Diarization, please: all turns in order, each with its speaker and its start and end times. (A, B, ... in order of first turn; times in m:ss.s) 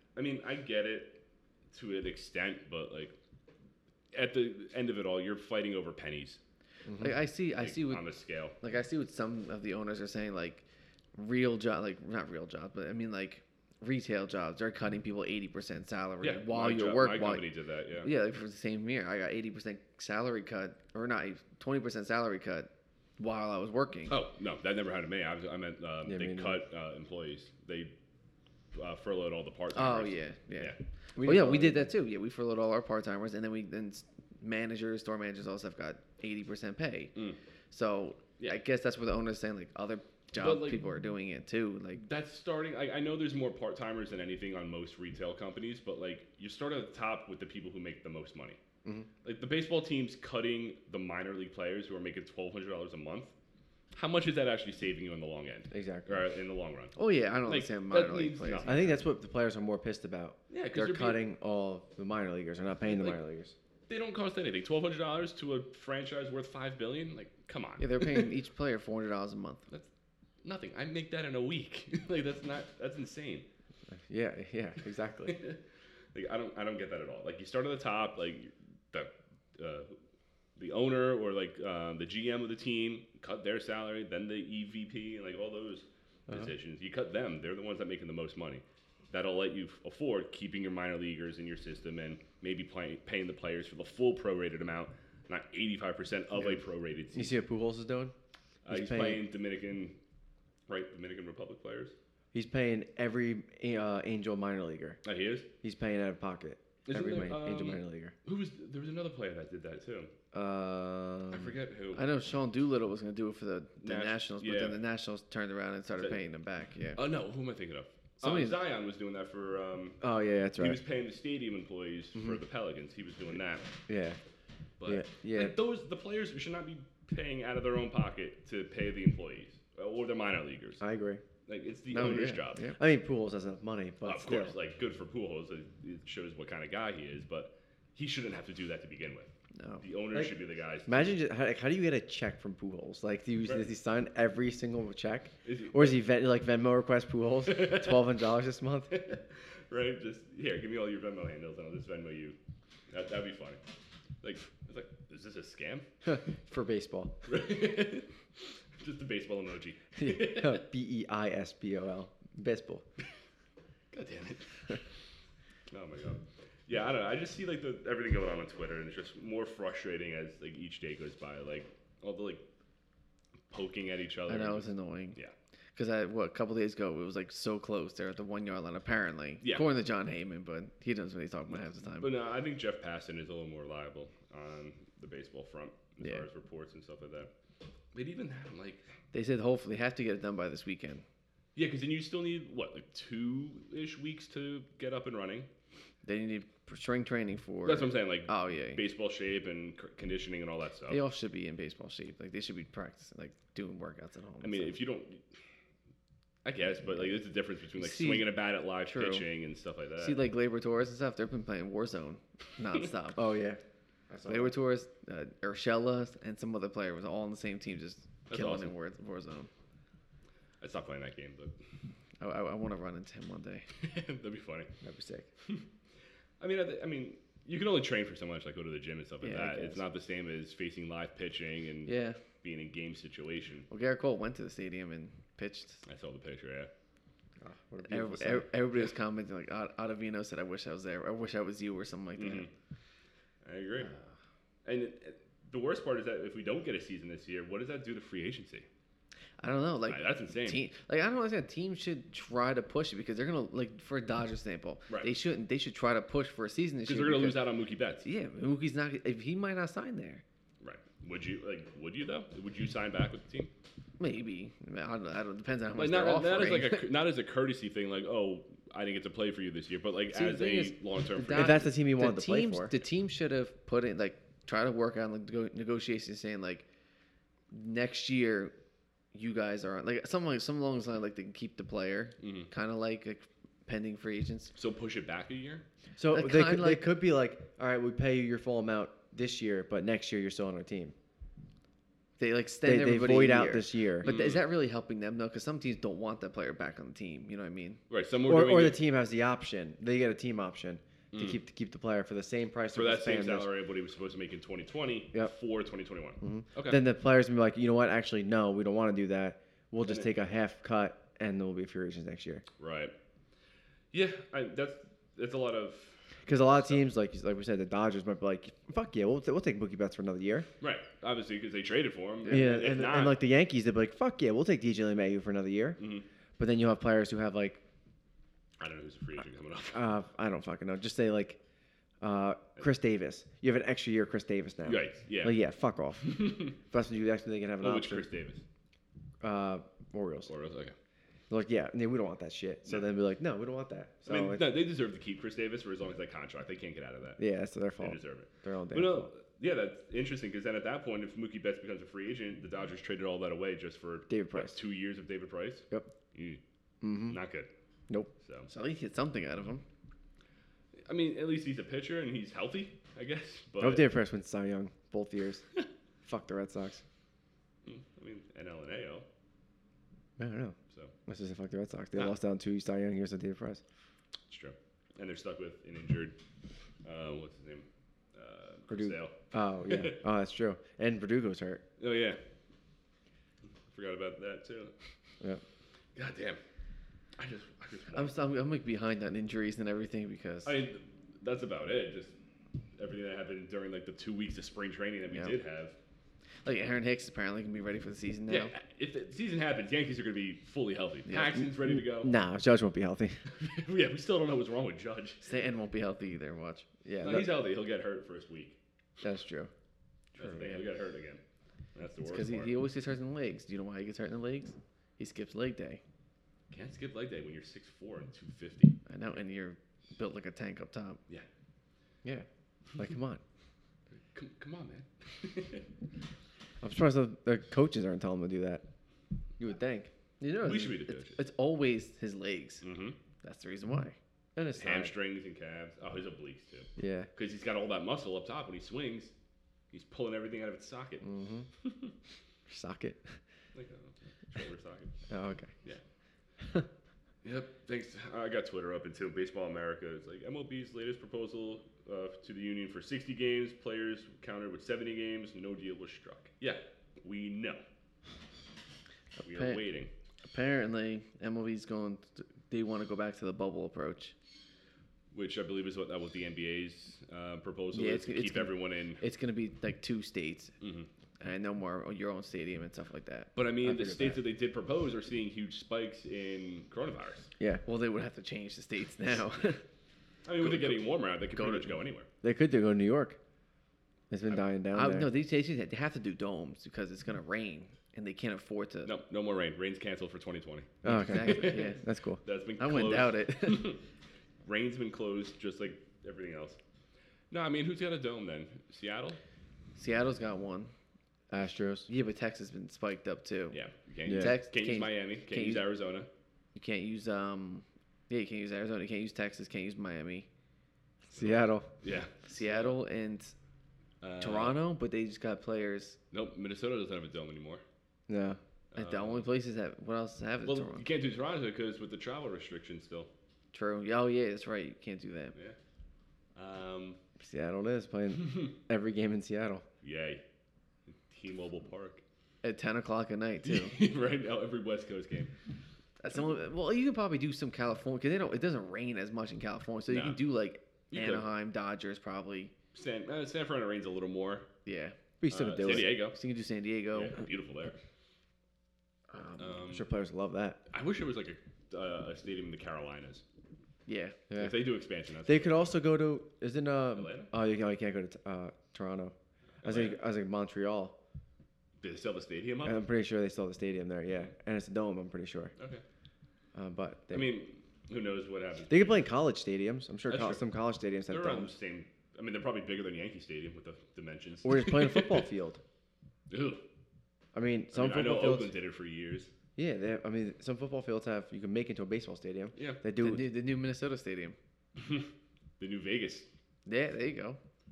0:00.2-0:03.1 A
0:04.1-0:06.4 A
0:06.9-0:07.2 B
0:07.0-0:08.0 C
0:07.6-0:08.6 A
0:08.6-0:10.6 C
0:11.2-0:17.5 C
0:16.2-0:18.1 A
0:18.0-0:24.2 C
0:24.1-0:27.9 A
0:26.0-0:26.6 B
0:28.7-0:30.8 A
0:29.7-0:37.1 C
0:31.2-0:31.9 B
0:37.7-0:42.0 C
0:40.4-0:40.8 A
0:42.0-0:48.6 A
0:49.2-0:53.3 A
0:53.9-0:59.0 A
0:55.7-0:56.1 B
0:57.0-0:58.9 C
0:58.7-1:03.5 B
1:00.5-1:01.3 A
1:02.8-1:03.2 A
1:03.9-1:08.3 A
1:07.8-1:09.7 C
1:10.4-1:13.5 A
1:13.9-1:15.4 B
1:15.2-1:15.6 A
1:16.1-1:20.0 A
1:20.6-1:37.4 A
1:37.1-1:38.1 B
1:38.6-1:40.0 A
1:38.7-1:39.3 B
1:40.7-1:41.9 A
1:42.3-1:45.0 B
1:45.0-1:45.5 A
1:45.6-1:48.1 B
1:46.9-1:50.1 A
1:50.3-1:51.6 B
1:51.3-1:52.0 A
1:52.0-1:57.0 C
1:53.8-1:54.8 A
1:57.0-2:00.0 A
1:58.2-1:58.6 C
2:00.0-2:00.8 B
2:00.6-2:03.7 A
2:03.9-2:04.2 B
2:04.8-2:10.8 A
2:04.8-2:05.6 B
2:10.8-2:11.2 B
2:11.5-2:12.7 A
2:11.9-2:12.8 C
2:12.8-2:14.5 B
2:14.0-2:21.2 A
2:19.6-2:19.8 C
2:20.9-2:28.9 B
2:25.4-2:26.0 A
2:27.4-2:28.1 A
2:28.9-2:32.4 A
2:32.9-2:33.6 A
2:34.2-2:35.9 A
2:36.0-2:37.3 B
2:37.3-2:38.1 A
2:38.8-2:40.6 A
2:40.0-2:42.8 B
2:43.9-2:44.8 A
2:45.7-2:52.4 A
2:53.5-2:55.3 A
2:54.3-2:55.2 C
2:55.8-3:02.1 C
3:02.0-3:07.3 A
3:06.0-3:06.3 C
3:07.9-3:08.9 A
3:09.1-3:11.0 C
3:11.6-3:15.5 A
3:16.0-3:18.8 C
3:17.6-3:21.0 A
3:20.9-3:24.8 C
3:24.4-3:25.2 A
3:26.4-3:30.2 A
3:27.8-3:28.4 C
3:28.9-3:29.3 C
3:30.0-3:33.2 C
3:33.2-3:34.6 B
3:34.3-3:39.5 C
3:38.3-3:38.7 A
3:40.6-3:41.6 A
3:42.2-3:43.7 C
3:43.8-3:44.7 A
3:44.8-3:45.3 B
3:46.4-3:53.7 A
3:49.2-3:49.8 C
3:51.9-3:52.2 C
3:53.7-3:55.8 C
3:55.9-3:56.7 A
3:57.4-3:58.5 B
3:57.8-4:02.5 C
4:02.2-4:02.5 A
4:03.4-4:03.9 A
4:04.6-4:08.7 A
4:09.4-4:17.4 C
4:09.9-4:10.6 A
4:16.9-4:18.1 A
4:18.0-4:20.2 C
4:20.6-4:23.5 A
4:24.0-4:26.8 C
4:25.8-4:31.7 A
4:30.1-4:36.6 C
4:31.3-4:32.7 B
4:37.5-4:38.5 C
4:39.1-4:44.5 C
4:42.2-4:42.5 A
4:44.6-4:45.6 A
4:46.0-4:51.0 B
4:46.1-4:46.9 C
4:52.2-4:57.8 C
4:52.6-4:54.1 B
4:54.0-4:54.5 A
4:57.9-4:58.8 A
4:58.2-5:03.5 B
5:01.1-5:01.4 A
5:02.7-5:06.8 A
5:06.2-5:12.4 B
5:09.8-5:10.1 A
5:12.6-5:12.9 A
5:13.9-5:16.9 A
5:16.2-5:20.5 B
5:20.6-5:23.2 A
5:22.3-5:25.8 B
5:25.8-5:26.0 A
5:26.4-5:27.6 B
5:28.6-5:29.9 A
5:29.7-5:31.4 B
5:32.0-5:38.1 B
5:34.6-5:35.4 A
5:36.0-5:36.6 A
5:37.6-5:38.4 A
5:39.2-5:40.3 B
5:40.3-5:40.8 A
5:41.3-5:44.6 B
5:42.7-5:42.9 A
5:44.1-5:47.2 A
5:47.2-5:49.1 B
5:47.8-5:56.4 A
5:54.1-5:54.6 B
5:56.8-5:57.2 B
5:57.0-5:57.5 A
5:58.2-5:58.5 A
5:58.5-5:59.6 C
6:00.8-6:03.9 A
6:03.6-6:05.4 B
6:06.0-6:06.8 B
6:07.6-6:09.1 A
6:10.2-6:13.6 B
6:14.3-6:16.2 A
6:16.8-6:20.0 A
6:18.7-6:21.6 B
6:21.8-6:22.2 A
6:23.7-6:24.7 A
6:26.0-6:26.4 A
6:27.2-6:28.1 A
6:27.9-6:30.6 C
6:30.4-6:32.2 A
6:32.8-6:35.8 A
6:36.4-6:38.5 C
6:38.3-6:42.2 A
6:41.1-6:41.4 C
6:41.9-6:43.2 B
6:43.3-6:45.2 A
6:45.2-6:46.7 C
6:46.8-6:47.4 B
6:47.0-6:48.6 A
6:49.0-6:49.5 C
6:49.0-6:49.5 B
6:50.2-6:51.2 A
6:50.2-6:50.5 B
6:51.8-6:52.5 A
6:52.0-6:55.8 C
6:56.5-6:58.8 A
6:58.9-7:01.0 C
7:02.0-7:03.2 B
7:04.1-7:05.7 A
7:06.6-7:08.6 B
7:09.4-7:09.9 B
7:10.2-7:12.6 C
7:10.4-7:11.2 A
7:12.6-7:13.0 A
7:13.2-7:14.0 C
7:14.4-7:14.9 B
7:14.6-7:19.1 A
7:16.8-7:17.1 B
7:19.7-7:21.1 A
7:21.0-7:21.5 B
7:21.6-7:21.9 A
7:22.5-7:23.2 B
7:23.5-7:24.9 A
7:25.1-7:25.5 B
7:26.4-7:26.7 B
7:27.2-7:37.6 A
7:39.2-7:39.6 C
7:39.2-7:39.9 A
7:40.3-7:44.1 C
7:45.1-7:49.0 A
7:47.7-7:50.5 C
7:50.6-7:50.9 A
7:51.2-7:53.3 C
7:53.4-7:57.3 A
7:53.6-7:54.2 B
7:57.7-7:59.6 C
8:00.2-8:02.1 A
8:00.4-8:00.8 C
8:01.4-8:01.8 C
8:02.2-8:03.2 B
8:04.1-8:05.1 B
8:04.7-8:08.9 C
8:08.8-8:13.8 A
8:10.8-8:12.2 B
8:10.8-8:11.8 C
8:12.6-8:13.8 C
8:14.4-8:16.6 A
8:17.3-8:19.2 A
8:19.8-8:20.7 C
8:21.3-8:21.9 B
8:21.9-8:23.6 C
8:23.5-8:26.1 A
8:24.0-8:24.4 B
8:24.1-8:25.7 C
8:26.6-8:30.3 C
8:31.1-8:31.7 B
8:31.2-8:32.8 A
8:32.3-8:33.3 C
8:34.0-8:34.6 A
8:34.2-8:36.0 C
8:36.1-8:37.6 A
8:38.1-8:38.4 B
8:38.7-8:39.3 A
8:38.8-8:40.9 C
8:40.4-8:43.1 A
8:43.5-8:45.4 C
8:46.4-8:47.0 A
8:47.2-8:49.6 B
8:48.2-8:48.5 A
8:49.8-8:50.2 A
8:51.1-8:52.0 A
8:52.4-8:53.8 C
8:53.4-8:55.3 A
8:56.0-9:02.5 C
8:59.9-9:00.2 A
9:00.9-9:01.3 A
9:02.7-9:04.5 A
9:04.6-9:05.0 C
9:05.2-9:06.0 B
9:05.3-9:06.2 A
9:06.0-9:07.2 C
9:06.9-9:07.8 A
9:09.1-9:09.4 C
9:09.4-9:09.9 A
9:09.6-9:10.6 B
9:10.7-9:13.2 A
9:13.9-9:14.2 C
9:14.3-9:15.8 A
9:15.2-9:21.0 B
9:17.0-9:17.3 A
9:19.6-9:20.0 A
9:21.8-9:22.8 A
9:22.6-9:25.5 B
9:25.6-9:25.8 A
9:26.6-9:27.4 B
9:27.1-9:29.1 A
9:28.7-9:31.5 B
9:30.1-9:30.4 A
9:31.1-9:35.3 A
9:34.4-9:35.6 B
9:36.3-9:36.6 A
9:37.3-9:38.5 B
9:37.7-9:39.3 A
9:39.6-9:43.3 B
9:42.6-9:42.8 A
9:43.0-9:44.4 C
9:44.8-9:45.1 A
9:45.6-9:46.3 A
9:46.7-9:47.4 C